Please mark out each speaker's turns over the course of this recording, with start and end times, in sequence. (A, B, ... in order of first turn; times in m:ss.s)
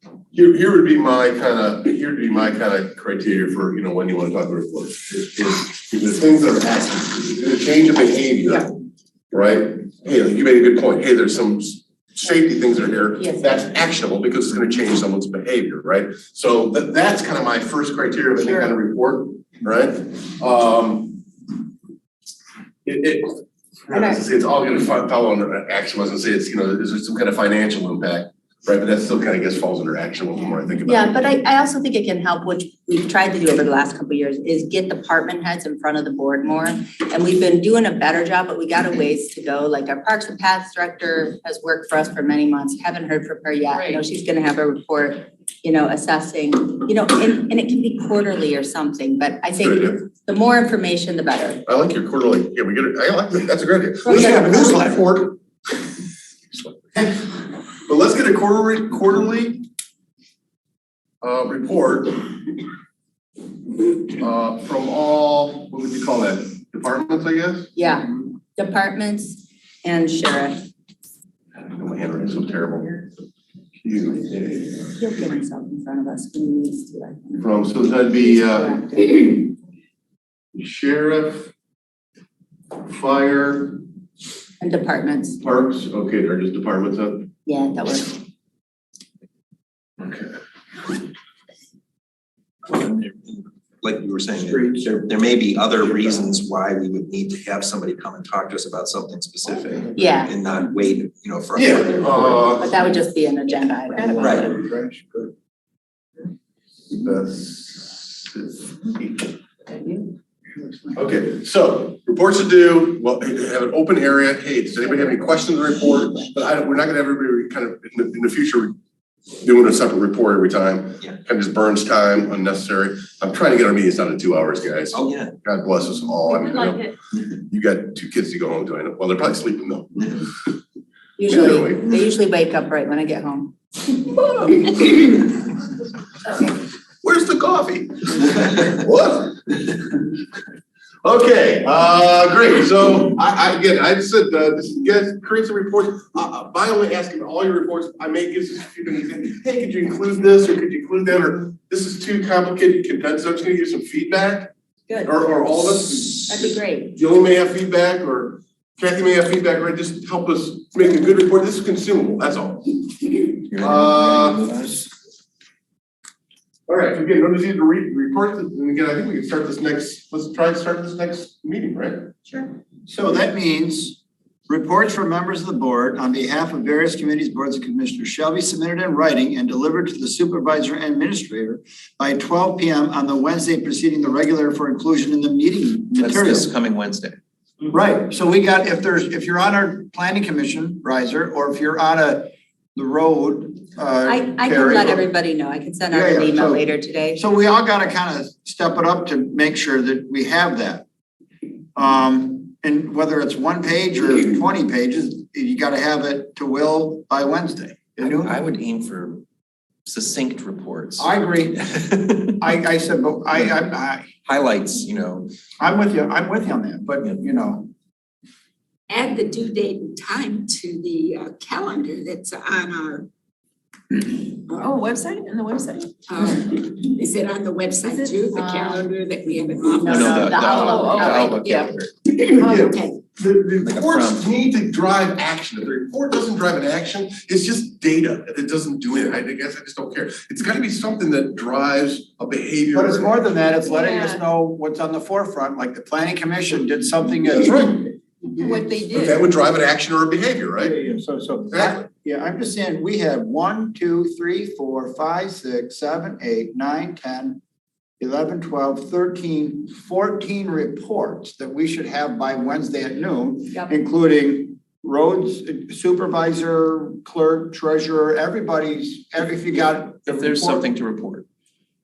0:00.3-0:08.8 A
0:09.3-0:21.2 A
0:13.2-0:13.6 B
0:18.4-0:18.7 C
0:22.8-0:31.2 A
0:23.9-0:24.2 B
0:30.8-0:51.6 B
0:49.6-0:50.0 A
0:51.6-0:54.7 A
0:54.0-0:54.9 B
0:54.1-0:55.4 D
0:56.9-0:59.6 A
1:01.2-1:02.2 A
1:04.1-1:07.7 A
1:07.8-1:10.6 B
1:11.7-1:13.1 A
1:13.8-1:14.4 A
1:14.1-1:17.5 B
1:17.4-1:19.5 A
1:18.1-1:19.1 B
1:20.5-1:21.5 A
1:22.9-1:23.8 A
1:24.6-1:25.4 B
1:25.4-1:27.3 A
1:27.5-1:28.2 B
1:30.1-1:30.3 A
1:32.7-1:42.3 E
1:34.4-1:35.0 D
1:39.9-1:40.3 B
1:41.6-1:42.7 A
1:42.0-1:42.4 D
1:42.5-1:44.5 B
1:44.2-1:44.5 E
1:44.2-1:45.3 D
1:46.9-1:49.3 A
1:50.6-1:50.9 D
1:51.0-1:58.7 A
1:59.4-2:07.0 A
2:04.9-2:05.3 E
2:07.5-2:10.2 A
2:11.2-2:13.5 B
2:11.3-2:11.9 A
2:14.2-2:15.3 A
2:17.0-2:20.0 A
2:21.0-2:44.4 A
2:36.3-2:37.0 B
2:43.5-2:44.9 E
2:46.7-2:52.1 A
2:52.9-3:06.5 D
3:06.0-3:07.2 E
3:07.7-3:15.1 D
3:14.0-3:17.2 B
3:15.9-3:16.6 D
3:17.2-3:20.8 D
3:21.8-3:28.4 D
3:28.0-3:29.2 E
3:29.9-3:32.5 E
3:31.0-3:31.6 D
3:32.4-3:34.1 D
3:34.2-3:35.3 E
3:35.6-3:37.7 D
3:38.9-3:43.1 F
3:44.5-3:44.8 F
3:44.6-3:45.9 C
3:46.0-3:53.0 F
3:47.9-3:48.3 C
3:48.3-3:48.9 B
3:49.8-3:51.4 B
3:49.8-3:51.9 E
3:50.7-3:51.7 C
3:52.3-4:03.2 A
3:53.6-3:54.3 E
4:02.7-4:07.8 D
4:03.8-4:04.2 C
4:07.4-4:10.8 A
4:08.6-4:08.9 C
4:10.6-4:17.4 D
4:11.5-4:11.8 A
4:18.0-4:30.6 D
4:30.0-4:31.2 E